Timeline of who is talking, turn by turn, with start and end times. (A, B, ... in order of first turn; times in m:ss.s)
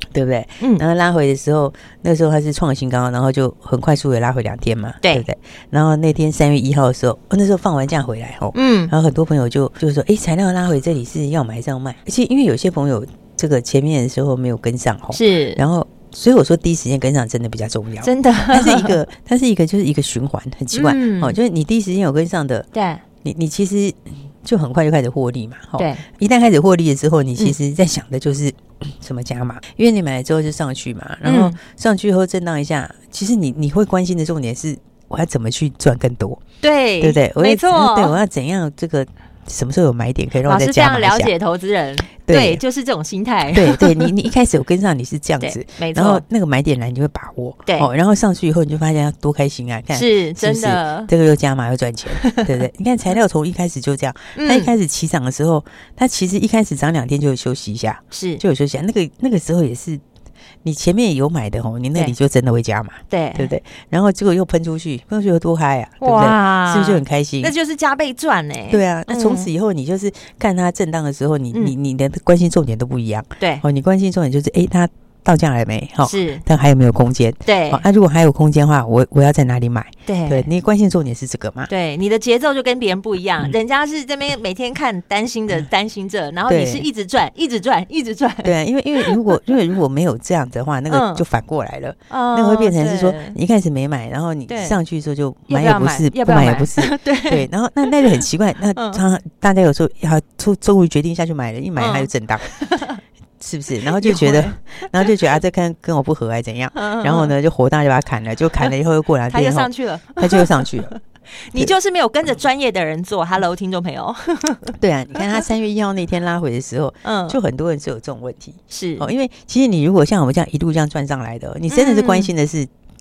0:00.1-0:22.7 A
0:08.5-0:08.9 B
0:15.1-0:15.6 B
0:18.0-0:19.0 B
0:20.7-0:21.4 B
0:22.7-0:23.0 B
0:23.2-0:36.4 A
0:25.8-0:26.0 B
0:31.2-0:31.6 B
0:36.6-0:38.2 B
0:37.0-0:41.3 A
0:40.4-0:44.1 B
0:42.3-0:42.6 A
0:43.5-1:00.0 A
0:45.4-0:46.2 B
0:49.9-0:51.1 B
0:52.2-0:52.5 B
0:54.4-0:54.7 B
0:58.1-0:58.4 B
1:00.6-1:07.5 A
1:03.1-1:03.5 B
1:06.0-1:09.5 B
1:08.7-1:21.7 A
1:16.0-1:16.4 B
1:17.5-1:17.8 B
1:20.1-1:20.5 B
1:21.7-1:29.4 B
1:26.5-1:26.9 A
1:28.4-1:42.6 A
1:30.9-1:31.2 B
1:32.1-1:33.4 B
1:34.5-1:34.8 B
1:35.5-1:38.2 B
1:38.8-1:39.0 B
1:41.8-1:43.0 B
1:43.4-1:50.9 A
1:43.9-1:45.1 B
1:46.8-1:47.3 B
1:49.3-1:54.7 B
1:54.8-2:02.7 A
1:57.0-1:57.4 B
1:58.7-1:59.1 B
2:01.7-2:02.3 B